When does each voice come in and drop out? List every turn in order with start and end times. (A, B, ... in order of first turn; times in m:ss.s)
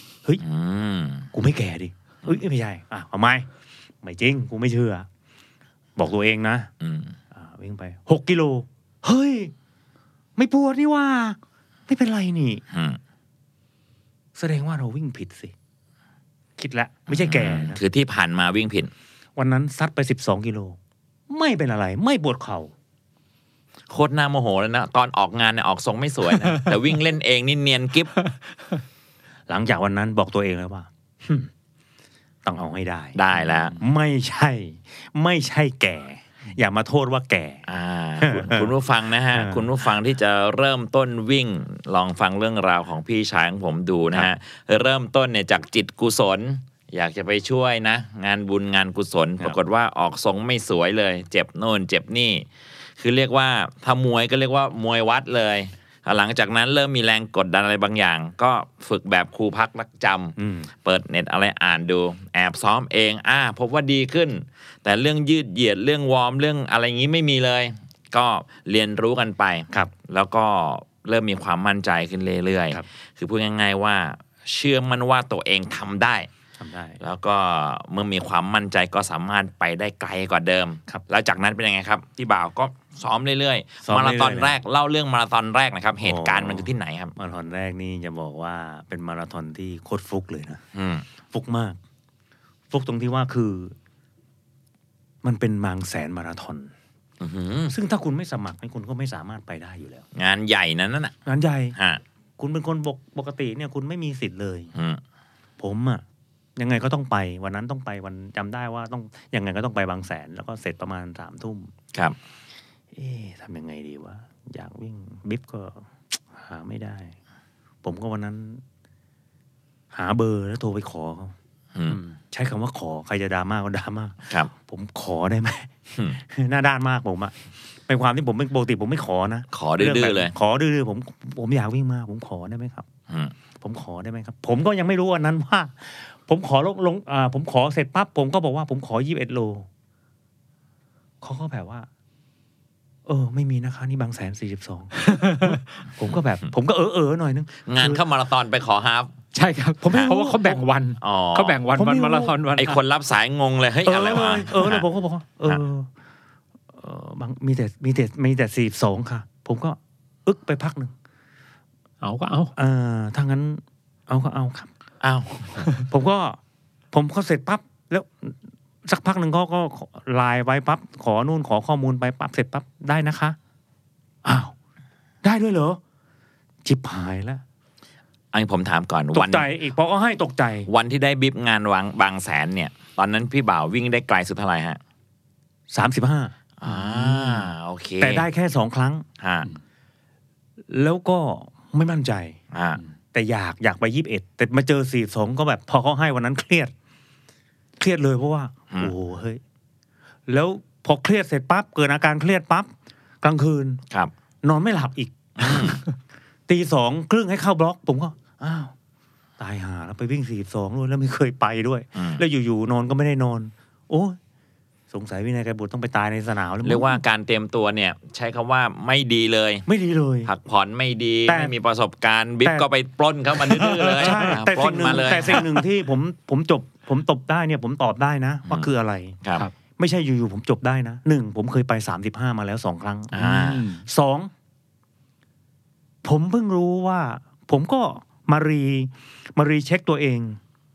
0:00.4-0:01.3 A
0:01.3-0:03.5 B
0:04.0-0:05.1 B
0:06.0-0:06.7 B
0:06.8-0:07.2 A
0:07.3-0:09.5 B
0:10.4-0:11.4 B
0:11.9-0:12.6 B
0:12.7-0:13.0 A
0:14.4-0:15.5 B
0:16.6-0:17.8 B
0:17.1-0:18.9 A
0:19.4-0:20.8 B
0:21.3-0:22.7 B
0:23.9-0:28.1 A
0:29.5-0:31.5 B
0:32.4-0:33.2 B
0:33.1-0:33.8 A
0:33.7-0:37.6 B
0:37.6-0:52.4 A
0:38.2-0:38.7 B
0:39.3-0:39.7 B
0:53.0-1:16.3 A
1:00.4-1:00.7 B
1:16.6-1:17.0 B
1:17.0-1:27.1 A
1:23.8-1:24.6 B
1:26.0-1:30.6 B
1:30.7-1:31.0 A
1:31.3-1:31.8 B
1:32.7-1:33.7 B
1:35.2-1:36.7 B
1:37.2-1:37.7 A
1:37.7-1:40.0 B
1:40.1-1:41.2 A
1:41.2-1:41.8 B
1:41.8-1:42.0 A
1:42.4-1:44.7 B
1:44.7-1:45.0 A
1:45.6-1:46.0 B
1:46.6-1:51.7 B
1:52.9-1:57.2 B
1:57.8-1:58.6 B
1:59.9-2:01.3 B
2:01.7-2:02.0 A
2:01.9-2:07.3 B
2:07.9-2:12.9 B
2:09.5-2:10.3 A
2:13.1-2:13.3 A
2:13.6-2:19.7 B
2:21.2-2:21.9 B
2:23.0-2:28.0 B
2:25.0-2:25.6 C
2:27.6-2:29.1 A
2:29.3-2:32.8 C
2:29.8-2:30.6 B
2:31.0-2:31.6 A
2:31.7-2:32.3 B
2:32.6-2:34.8 A
2:33.8-2:35.9 B
2:36.8-2:40.9 B
2:42.0-2:42.5 C
2:42.6-2:44.7 B
2:45.0-2:45.7 A
2:45.9-2:46.4 B
2:46.9-2:53.4 B
2:54.2-2:54.5 B
2:55.2-2:55.8 B
2:56.6-2:57.4 B
2:58.3-2:59.5 A
2:59.1-3:00.7 B
3:00.7-3:04.8 A
3:05.7-3:07.5 B
3:06.6-3:08.2 A
3:08.0-3:09.0 B
3:09.2-3:09.5 A
3:10.7-3:12.4 B
3:12.5-3:12.8 A
3:13.1-3:16.7 B
3:17.8-3:19.4 B
3:20.3-3:22.7 B
3:23.2-3:23.8 B
3:24.4-3:25.8 B
3:25.4-3:25.8 A
3:26.5-3:28.7 B
3:29.4-3:34.2 B
3:31.9-3:32.2 A
3:34.9-3:37.0 B
3:36.6-3:39.7 A
3:39.7-3:40.3 B
3:40.2-3:45.5 A
3:41.2-3:41.5 B
3:43.7-3:44.3 C
3:43.8-3:49.2 B
3:49.8-3:53.3 B
3:53.1-3:53.6 A
3:53.2-3:53.8 C
3:53.8-3:54.3 B
3:56.0-4:00.4 B